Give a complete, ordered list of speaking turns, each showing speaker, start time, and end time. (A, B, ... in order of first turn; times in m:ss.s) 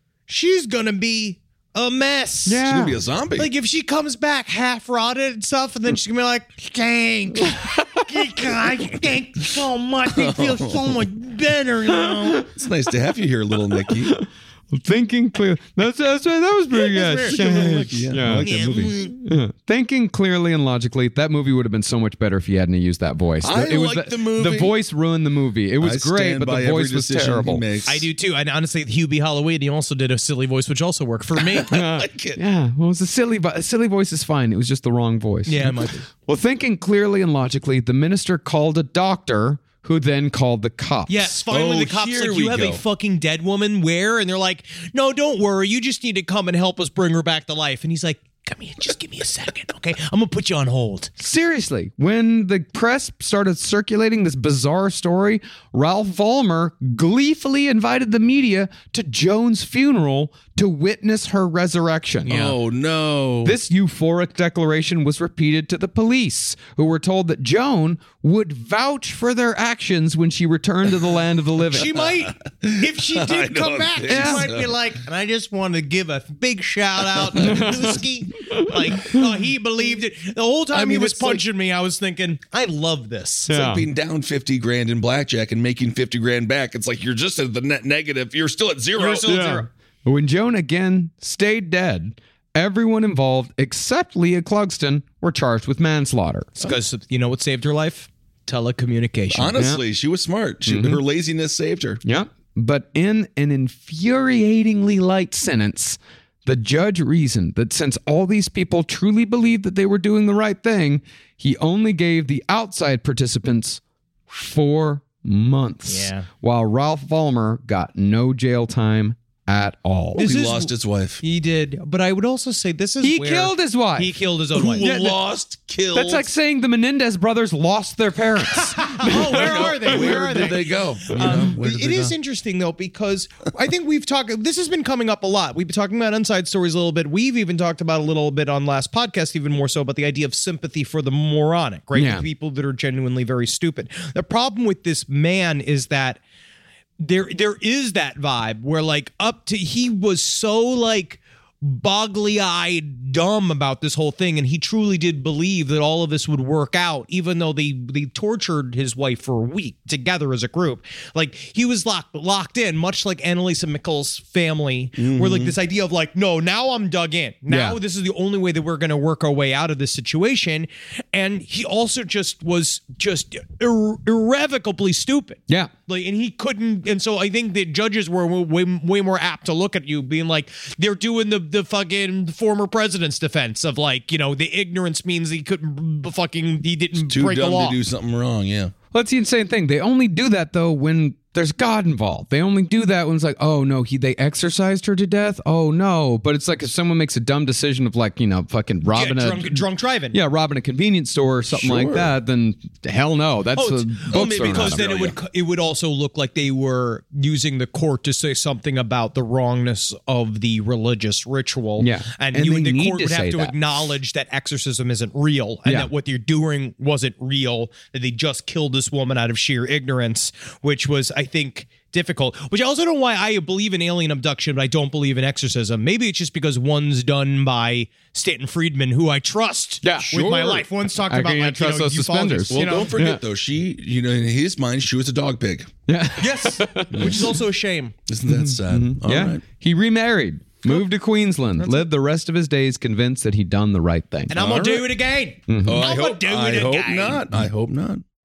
0:00.3-0:02.6 A
0:02.5-0:03.0 B
0:02.6-0:03.5 C
0:03.4-0:12.4 A
0:10.1-0:10.9 C
0:12.5-0:14.2 C
0:13.9-0:27.6 B
0:16.9-0:19.2 A
0:17.3-0:18.9 C
0:23.4-0:24.7 C
0:25.8-0:28.1 C
0:27.9-0:31.7 A
0:31.6-0:32.4 C
0:31.7-0:41.4 B
0:35.5-0:36.1 A
0:41.1-0:51.1 A
0:41.5-0:42.8 C
0:51.2-1:02.6 B
1:02.3-1:03.6 C
1:03.4-1:11.9 B
1:11.7-1:23.5 A
1:12.4-1:14.8 C
1:14.1-1:14.5 B
1:17.4-1:18.0 B
1:18.5-1:19.2 B
1:20.7-1:21.4 C
1:23.5-1:23.9 B
1:23.5-1:29.3 C
1:29.0-1:29.7 A
1:29.3-1:36.6 B
1:36.6-1:39.6 A
1:39.3-1:42.0 C
1:39.6-1:39.8 B
1:40.6-1:41.0 B
1:42.0-2:00.2 B
1:55.9-1:56.3 A
2:00.2-2:04.9 A
2:00.2-2:01.2 C
2:03.0-2:04.2 B
2:04.6-2:06.3 C
2:04.8-2:05.2 B
2:05.9-2:10.3 B
2:08.6-2:26.2 A
2:09.1-2:12.2 C
2:21.9-2:22.3 B
2:27.0-3:07.8 A
2:45.0-2:45.5 C
2:47.5-2:47.8 B
3:07.0-3:08.7 C
3:08.9-3:24.8 B
3:18.9-3:20.2 A
3:21.5-3:22.1 C
3:23.6-3:52.9 A
3:24.1-3:25.2 C
3:31.8-3:33.6 B
3:35.6-3:35.9 B
3:49.8-3:50.1 B
3:50.1-3:50.6 C
3:51.0-3:53.2 B
3:52.5-3:55.7 C
3:55.9-3:57.2 B
3:56.2-3:58.0 A
3:56.9-3:57.3 C
3:58.1-3:59.4 C
3:58.3-4:04.4 B
4:01.6-4:01.8 A
4:04.3-4:07.2 A
4:04.3-4:04.9 C
4:05.5-4:05.8 B
4:05.6-4:08.0 C